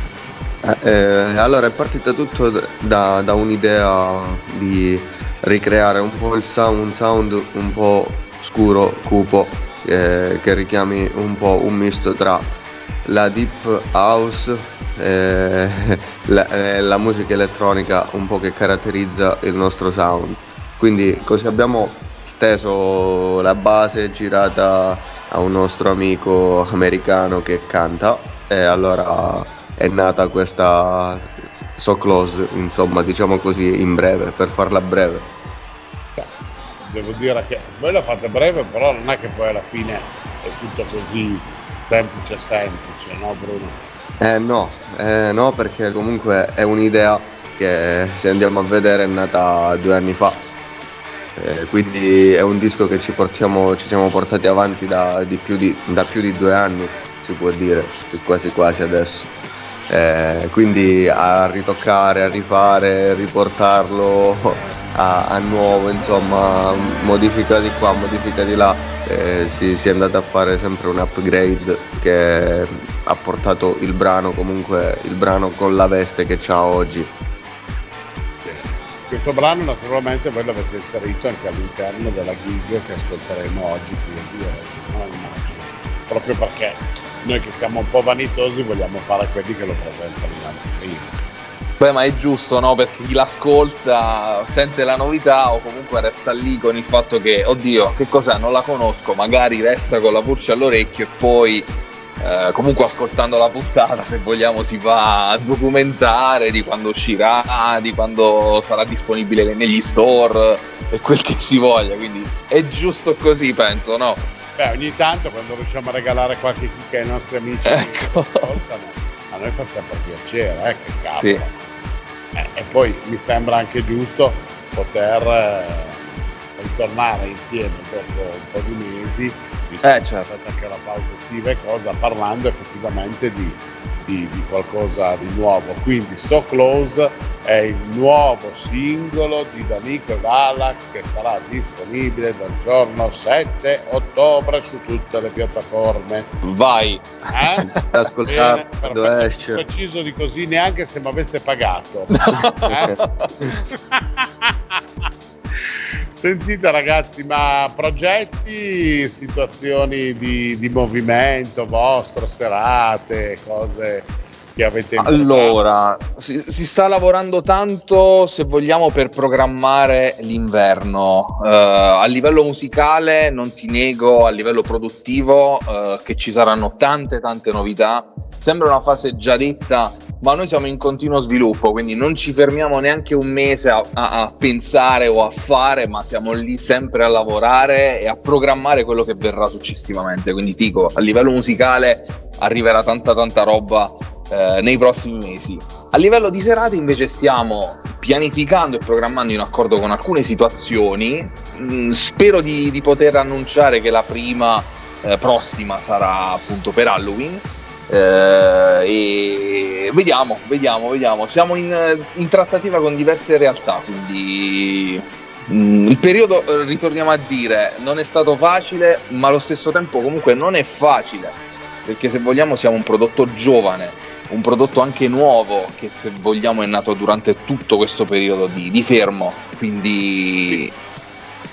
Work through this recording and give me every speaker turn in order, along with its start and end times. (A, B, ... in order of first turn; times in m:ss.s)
0:00.6-0:12.5 A
0:13.0-0:35.3 A
0:36.8-0:43.8 B
0:44.2-0:50.4 A
0:51.4-0:59.3 A
0:59.9-1:17.1 A
1:18.4-1:31.2 B
1:31.8-1:54.3 C
1:54.6-2:01.6 B
1:57.6-1:58.5 C
2:01.2-2:01.4 C
2:02.3-2:06.0 B
2:06.6-2:26.3 B
2:09.8-2:10.3 C
2:26.4-2:27.8 C
2:27.3-2:27.7 B
2:27.8-2:29.6 A
2:28.3-2:32.1 B
2:32.2-2:33.3 C
2:32.6-2:34.8 B
2:35.6-2:45.6 B
2:45.0-3:50.7 C